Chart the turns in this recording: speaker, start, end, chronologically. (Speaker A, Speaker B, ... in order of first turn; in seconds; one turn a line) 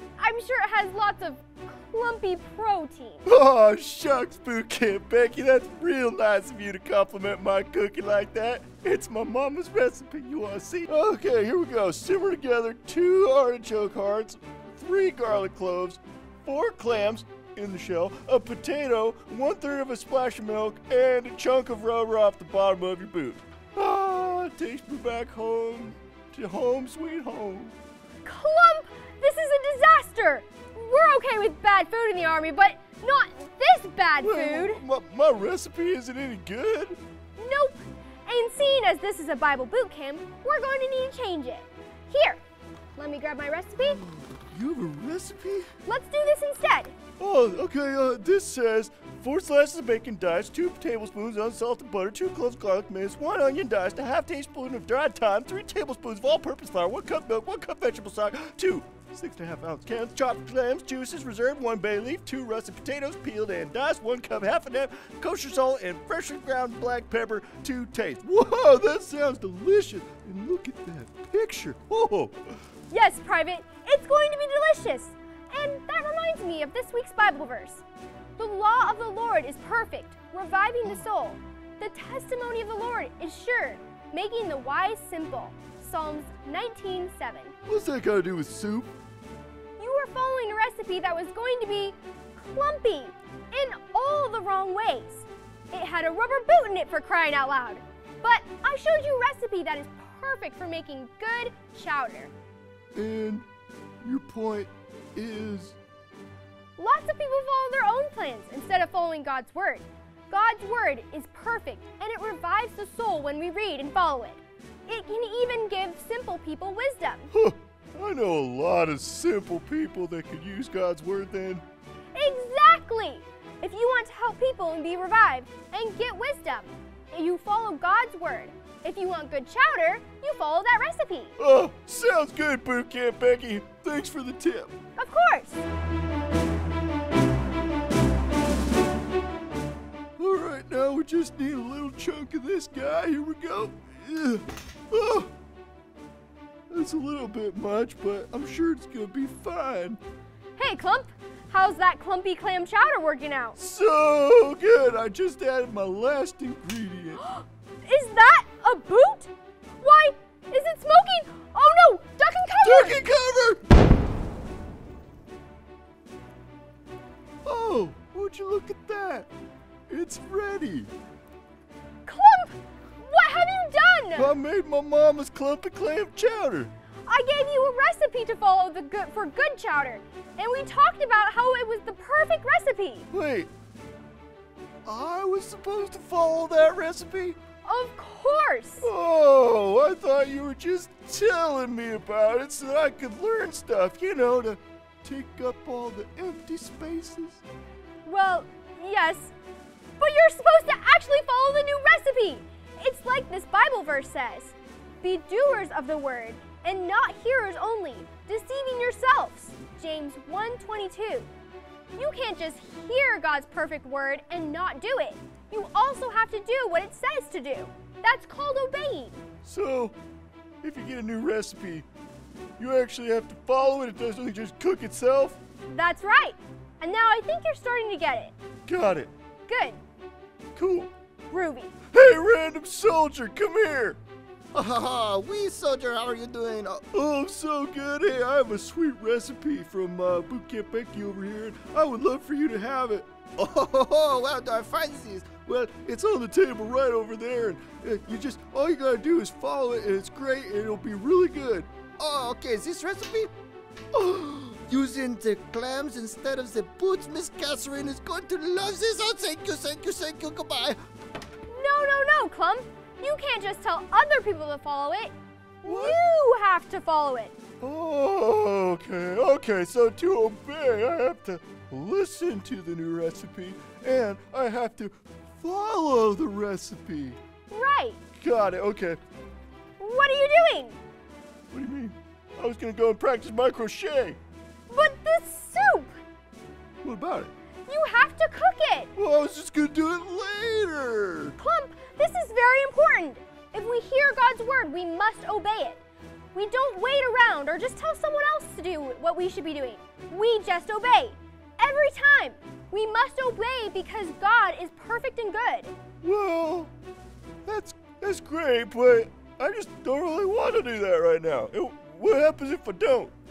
Speaker A: 0.2-3.3
Speaker B: 3.2-27.7
Speaker A: 28.2-34.8
Speaker B: 34.2-37.0
Speaker A: 37.4-42.4
Speaker A: 43.0-44.0
Speaker B: 43.8-45.7
Speaker A: 45.8-46.9
Speaker B: 47.2-72.6
Speaker A: 72.9-77.8
Speaker A: 78.4-87.5
Speaker B: 87.7-88.9
Speaker A: 89.8-102.3
Speaker B: 102.9-103.5
Speaker B: 104.0-105.8
Speaker A: 106.8-117.3
Speaker B: 117.3-121.6
Speaker A: 122.1-131.3
Speaker B: 131.4-134.7
Speaker A: 134.9-135.6
Speaker B: 140.2-145.3
Speaker B: 146.7-150.0
Speaker A: 150.6-153.6
Speaker B: 153.6-157.2
Speaker A: 157.2-163.0
Speaker B: 162.6-163.6
Speaker B: 167.4-169.3
Speaker B: 169.9-170.9
Speaker A: 172.0-174.3
Speaker B: 174.1-176.7
Speaker A: 177.1-183.1
Speaker B: 183.1-183.5
Speaker B: 184.8-187.4
Speaker A: 187.6-188.9
Speaker B: 188.8-197.4
Speaker A: 198.0-199.3
Speaker A: 200.0-211.3
Speaker A: 211.9-219.2
Speaker B: 219.4-219.9
Speaker B: 220.6-221.8
Speaker B: 222.6-225.4
Speaker A: 225.7-228.3
Speaker B: 228.7-229.1
Speaker A: 229.5-229.8
Speaker B: 230.6-230.9
Speaker A: 231.3-231.7
Speaker B: 231.9-234.0
Speaker C: 234.5-236.8
Speaker B: 236.9-243.2
Speaker C: 243.4-245.4
Speaker B: 245.3-251.9
Speaker C: 252.0-253.3
Speaker B: 253.9-255.5
Speaker C: 254.7-260.8
Speaker B: 257.8-258.3
Speaker A: 261.5-267.3
Speaker B: 265.6-266.0
Speaker B: 267.6-277.2
Speaker A: 277.5-278.0
Speaker B: 278.2-279.0
Speaker A: 279.8-280.8
Speaker B: 281.5-284.2
Speaker A: 284.7-285.9
Speaker B: 286.8-287.3
Speaker A: 287.7-288.9
Speaker B: 288.9-291.3
Speaker A: 291.4-295.8
Speaker A: 296.3-305.7
Speaker B: 306.0-306.7
Speaker B: 307.4-313.1